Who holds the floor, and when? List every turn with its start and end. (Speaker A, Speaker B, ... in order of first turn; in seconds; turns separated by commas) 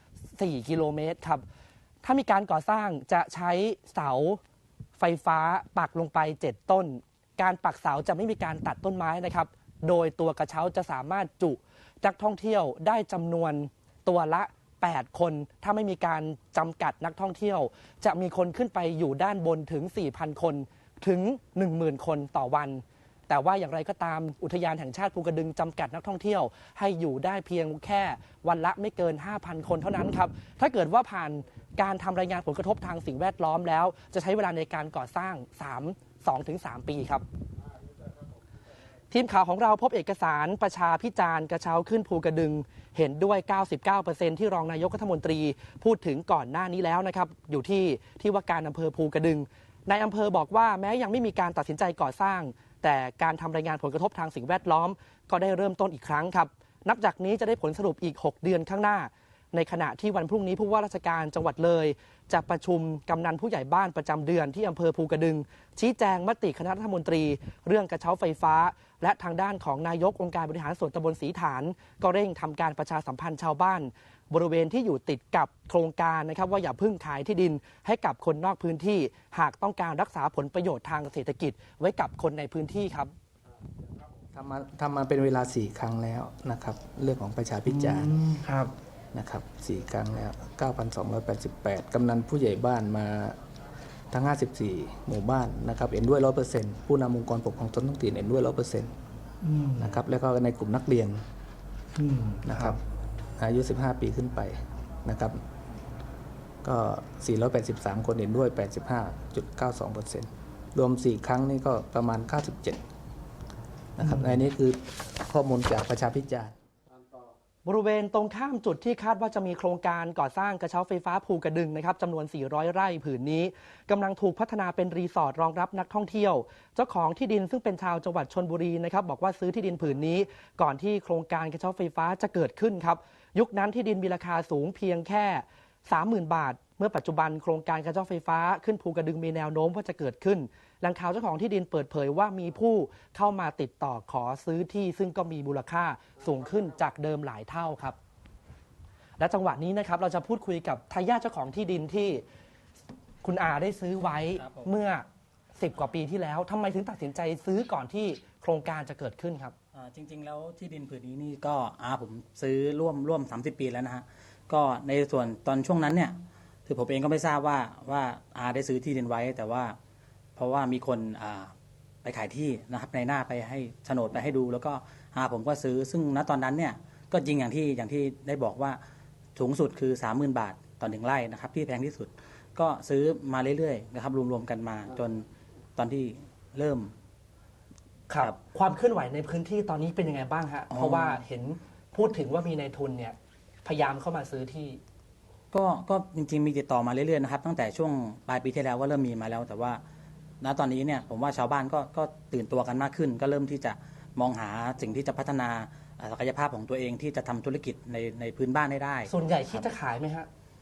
Speaker A: 0.4-1.4, Speaker A: 2.0-4.4, Speaker A: 5.0-37.2, Speaker A: 39.1-83.1, Speaker B: 84.3-88.1, Speaker A: 87.7-88.7, Speaker B: 89.1-93.4, Speaker B: 94.1-98.9, Speaker A: 99.4-99.9, Speaker B: 99.8-101.2, Speaker A: 102.0-102.8, Speaker B: 102.4-102.8, Speaker B: 103.4-105.4, Speaker B: 106.6-112.8, Speaker B: 114.0-116.5, Speaker A: 114.0-114.3, Speaker A: 117.6-148.0, Speaker A: 149.2-152.2, Speaker A: 153.2-155.0, Speaker C: 154.4-154.7, Speaker A: 155.6-159.5, Speaker C: 159.7-169.8, Speaker C: 170.3-171.5, Speaker C: 172.0-178.8, Speaker C: 179.3-186.9, Speaker A: 188.1-194.8, Speaker C: 190.7-191.2, Speaker C: 195.5-199.8, Speaker C: 200.4-209.7, Speaker A: 209.1-210.3